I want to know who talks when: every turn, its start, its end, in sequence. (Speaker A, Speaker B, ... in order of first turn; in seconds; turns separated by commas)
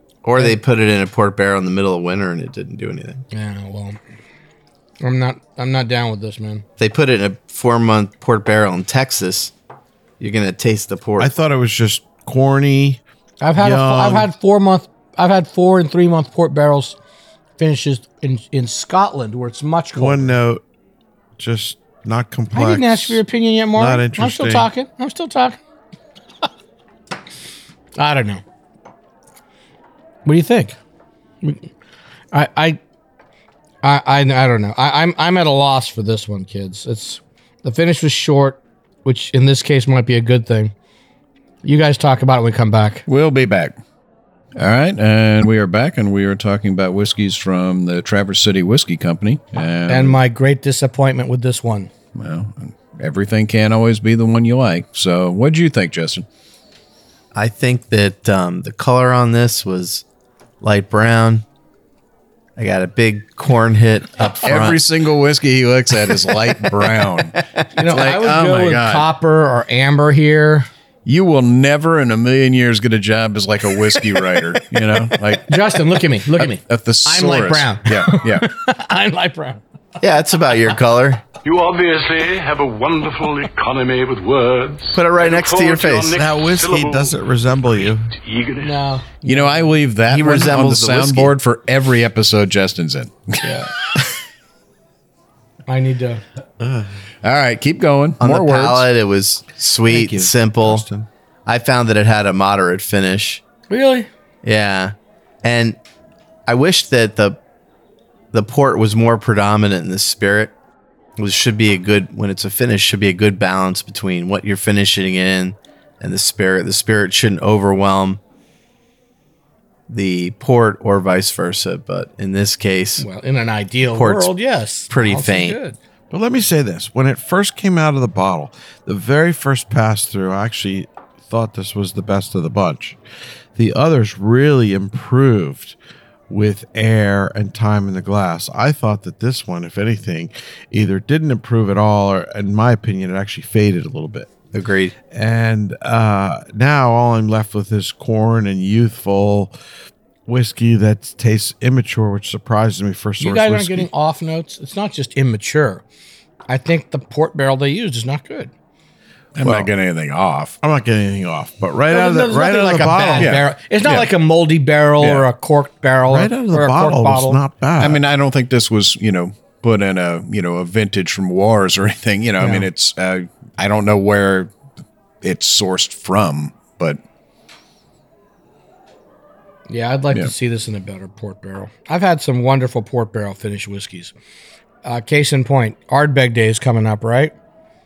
Speaker A: 0.2-3.2, Speaker B: 3.3-4.0, Speaker B: 5.0-6.6, Speaker A: 6.8-9.5, Speaker A: 10.2-11.3, Speaker C: 11.2-13.0, Speaker B: 13.4-17.0, Speaker C: 13.6-14.3, Speaker B: 17.6-20.4, Speaker C: 20.0-20.6, Speaker C: 21.4-23.2, Speaker B: 22.5-25.6, Speaker C: 23.7-24.7, Speaker B: 28.0-28.4, Speaker B: 30.2-30.8, Speaker B: 31.4-31.7, Speaker B: 32.3-32.8, Speaker B: 33.8-40.7, Speaker B: 41.6-43.0, Speaker D: 43.1-43.8, Speaker D: 44.6-50.2, Speaker B: 49.9-51.9, Speaker D: 52.1-56.3, Speaker A: 57.3-60.0, Speaker A: 60.6-61.5, Speaker A: 62.6-64.8, Speaker D: 64.4-69.1, Speaker B: 67.8-70.7, Speaker D: 71.1-75.5, Speaker B: 75.5-79.6, Speaker D: 76.4-78.5, Speaker A: 80.0-81.2, Speaker E: 81.4-87.2, Speaker A: 84.9-86.2, Speaker C: 86.1-88.1, Speaker E: 88.2-88.7, Speaker B: 88.6-89.8, Speaker D: 89.2-93.5, Speaker A: 90.1-91.3, Speaker B: 93.4-93.7, Speaker B: 95.7-96.2, Speaker C: 96.6-96.9, Speaker D: 97.2-98.9, Speaker A: 98.2-100.9, Speaker C: 99.9-101.1, Speaker A: 101.5-103.4, Speaker B: 103.7-104.1, Speaker A: 104.4-105.8, Speaker A: 106.5-107.4, Speaker A: 108.3-110.5, Speaker A: 111.2-118.2, Speaker A: 119.9-123.1, Speaker B: 123.0-125.8, Speaker A: 123.9-124.3, Speaker A: 124.9-125.6, Speaker C: 126.1-133.0, Speaker C: 133.6-135.8, Speaker C: 136.3-144.3, Speaker A: 144.5-144.9, Speaker C: 145.1-149.5, Speaker C: 150.3-153.9, Speaker B: 153.2-155.8, Speaker B: 156.5-158.5, Speaker D: 159.3-160.6, Speaker C: 159.4-159.7, Speaker C: 160.6-163.4, Speaker B: 161.9-167.4, Speaker D: 163.2-164.1, Speaker D: 165.0-165.3, Speaker C: 166.1-168.0, Speaker D: 167.8-174.5, Speaker B: 172.4-172.7, Speaker D: 175.2-177.0, Speaker B: 179.7-184.1, Speaker B: 184.8-187.3